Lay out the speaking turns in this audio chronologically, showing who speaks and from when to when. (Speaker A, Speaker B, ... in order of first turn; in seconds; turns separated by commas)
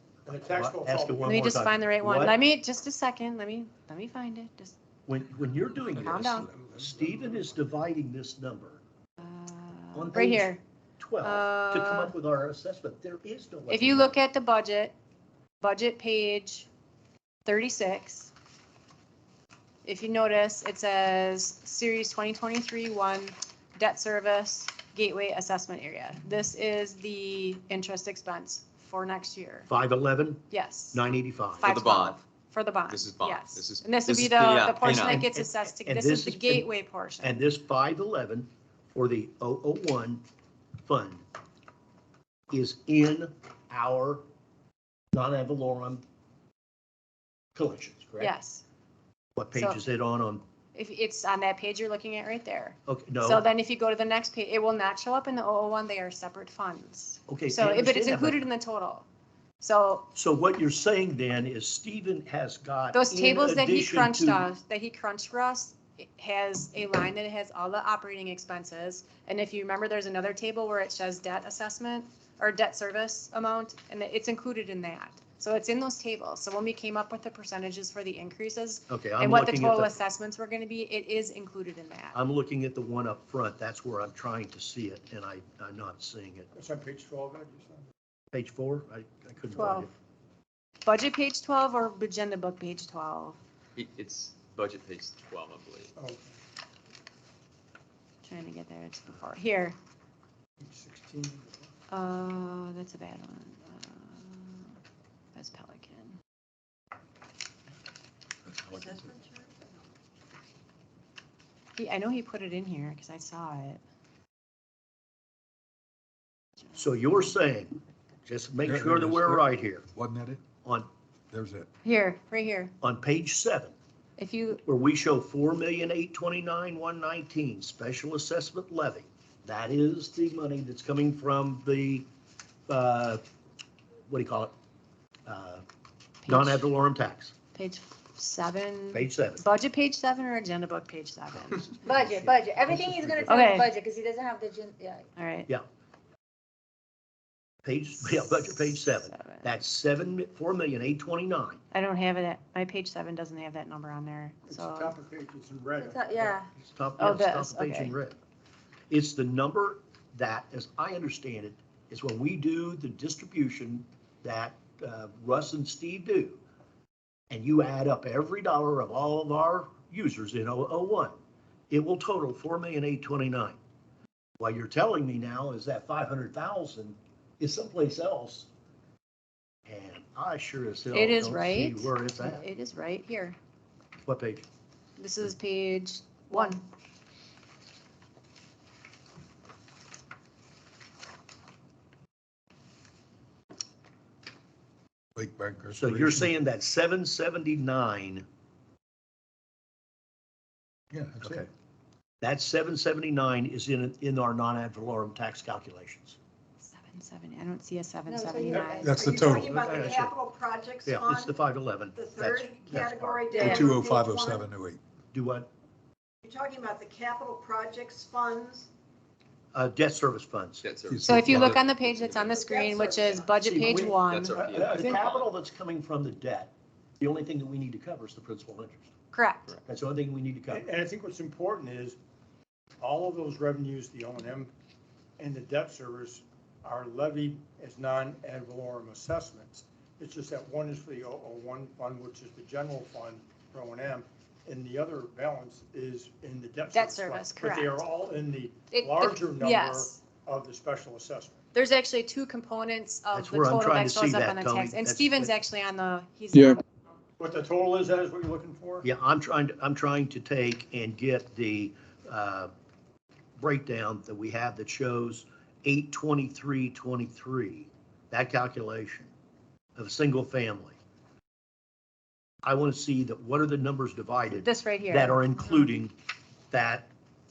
Speaker A: 0.3-1.3, Speaker B: 0.3-2.4, Speaker C: 1.3-4.8, Speaker B: 5.1-8.8, Speaker D: 5.9-7.0, Speaker C: 6.0-6.5, Speaker C: 9.2-10.6, Speaker B: 9.9-14.2, Speaker C: 11.2-12.1, Speaker C: 13.7-14.9, Speaker C: 15.6-16.7, Speaker C: 17.5-18.3, Speaker C: 19.8-29.7, Speaker B: 29.7-31.7, Speaker C: 30.5-31.0, Speaker E: 31.6-32.2, Speaker C: 31.6-37.4, Speaker E: 32.9-35.3, Speaker B: 34.8-36.7, Speaker B: 37.2-40.2, Speaker B: 40.8-41.2, Speaker B: 42.5-44.2, Speaker B: 45.1-46.0, Speaker B: 47.5-48.3, Speaker C: 48.2-48.6, Speaker B: 49.4-50.4, Speaker C: 49.5-49.8, Speaker C: 50.7-59.1, Speaker B: 52.9-53.5, Speaker B: 57.3-58.4, Speaker C: 59.6-60.1, Speaker B: 60.1-64.5, Speaker C: 62.9-82.2, Speaker B: 78.9-79.9, Speaker B: 82.1-86.5, Speaker A: 86.6-87.9, Speaker B: 88.3-89.9, Speaker C: 89.5-89.9, Speaker C: 90.8-93.4, Speaker E: 93.8-95.9, Speaker A: 96.0-96.4, Speaker C: 98.2-99.8, Speaker A: 100.6-101.7, Speaker C: 101.9-104.8, Speaker C: 105.3-106.2, Speaker D: 108.5-109.1, Speaker C: 111.8-113.8, Speaker B: 116.8-119.9, Speaker D: 118.6-120.4, Speaker D: 121.3-121.7, Speaker C: 121.8-122.7, Speaker B: 122.8-123.8, Speaker C: 124.2-124.6, Speaker B: 124.7-132.1, Speaker B: 132.7-133.2, Speaker B: 134.1-134.5, Speaker B: 135.3-135.6, Speaker C: 136.2-136.7, Speaker B: 136.3-137.3, Speaker C: 137.6-141.6, Speaker B: 138.9-139.4, Speaker B: 141.4-143.7, Speaker F: 141.8-145.1, Speaker C: 143.3-143.7, Speaker C: 145.2-145.5, Speaker B: 147.7-151.6, Speaker C: 148.7-149.5, Speaker C: 151.7-154.9, Speaker A: 154.5-156.4, Speaker F: 155.8-156.5, Speaker B: 156.6-158.2, Speaker C: 157.0-157.9, Speaker B: 158.9-166.4, Speaker B: 167.3-171.2, Speaker B: 171.7-173.6, Speaker B: 174.4-178.5, Speaker B: 179.7-182.4, Speaker C: 180.9-183.4, Speaker B: 184.1-184.5, Speaker C: 185.0-186.6, Speaker D: 195.2-196.3, Speaker B: 195.7-198.2, Speaker D: 200.9-201.5, Speaker B: 201.2-201.5, Speaker B: 202.2-206.2, Speaker C: 206.6-208.9, Speaker F: 208.1-208.9, Speaker G: 208.4-211.4, Speaker D: 208.8-210.1, Speaker B: 209.8-210.1, Speaker B: 210.8-213.7, Speaker G: 211.9-214.5, Speaker D: 213.4-214.8, Speaker B: 215.1-215.5, Speaker G: 216.2-218.7, Speaker B: 219.5-220.7, Speaker E: 220.6-222.5, Speaker D: 220.9-221.6, Speaker C: 221.0-224.4, Speaker G: 222.4-223.6, Speaker B: 223.5-228.9, Speaker E: 223.7-225.3, Speaker A: 224.3-225.1, Speaker C: 229.1-229.5, Speaker B: 229.7-230.7, Speaker A: 230.5-232.0, Speaker A: 232.8-234.5, Speaker A: 235.2-251.4, Speaker C: 246.7-247.8, Speaker C: 248.7-250.0, Speaker C: 251.5-256.6, Speaker B: 253.1-255.3, Speaker A: 257.2-258.9, Speaker B: 258.8-262.5, Speaker B: 263.4-269.1, Speaker B: 269.8-270.8, Speaker B: 272.4-275.9, Speaker C: 274.4-275.2, Speaker B: 276.5-276.9